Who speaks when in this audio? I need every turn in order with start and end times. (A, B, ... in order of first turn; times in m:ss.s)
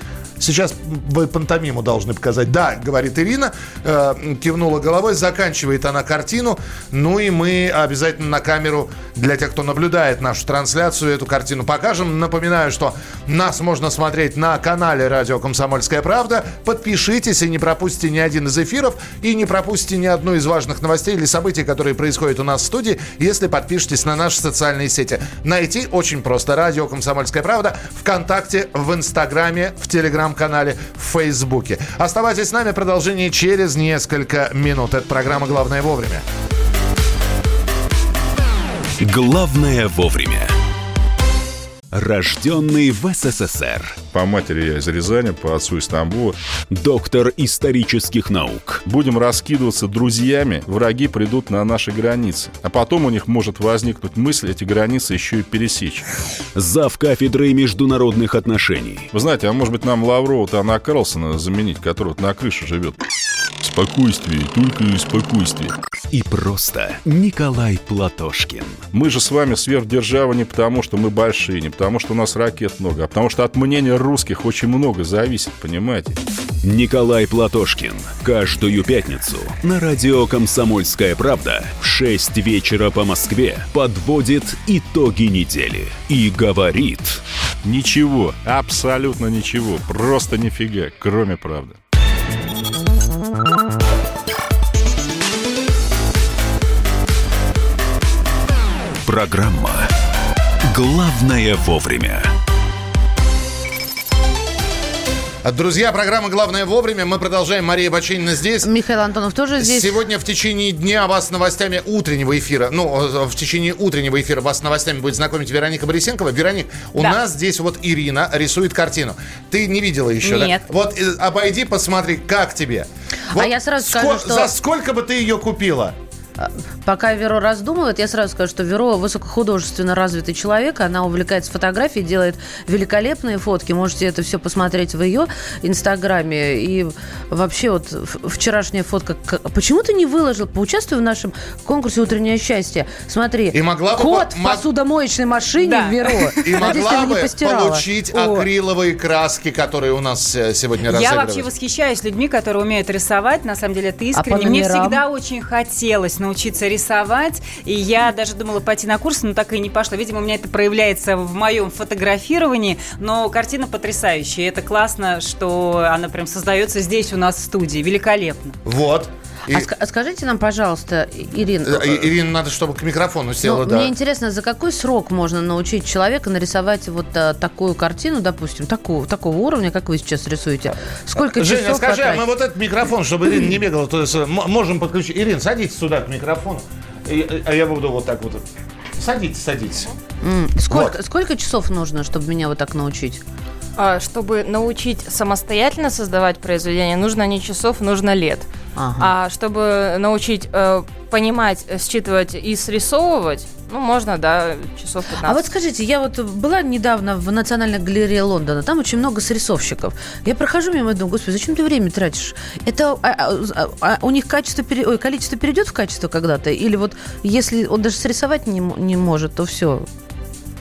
0:00.4-0:36.2 A
0:39.0-0:40.6 B
0:41.9-0:44.0 B
0:44.1-0:46.4 C
0:46.7-0:48.8 B
0:48.8-0:56.1 C
0:56.6-0:59.1 B
0:59.1-1:03.0 C
1:03.6-1:05.7 C
1:06.1-1:08.8 B
1:08.9-1:16.2 C
1:16.6-1:27.2 B
1:27.6-1:31.8 C
1:39.0-1:39.9 B
1:40.7-1:42.3 B
1:45.4-1:48.7 A
1:48.6-1:50.0 D
1:49.6-2:06.0 A
2:00.3-2:00.6 E
2:03.3-2:04.5 D
2:06.4-2:28.5 D
2:23.5-2:24.6 A
2:25.6-2:27.0 E
2:26.4-2:31.5 A
2:30.8-2:48.6 E
2:34.1-2:35.0 D
2:48.6-2:49.7 A
2:49.5-2:52.1 D
2:51.7-2:53.9 A
2:53.4-3:02.3 D
3:01.2-3:08.4 A
3:09.0-3:09.9 A
3:10.2-3:13.2 D
3:13.8-3:25.4 F
3:18.8-3:19.1 D
3:25.2-3:39.9 D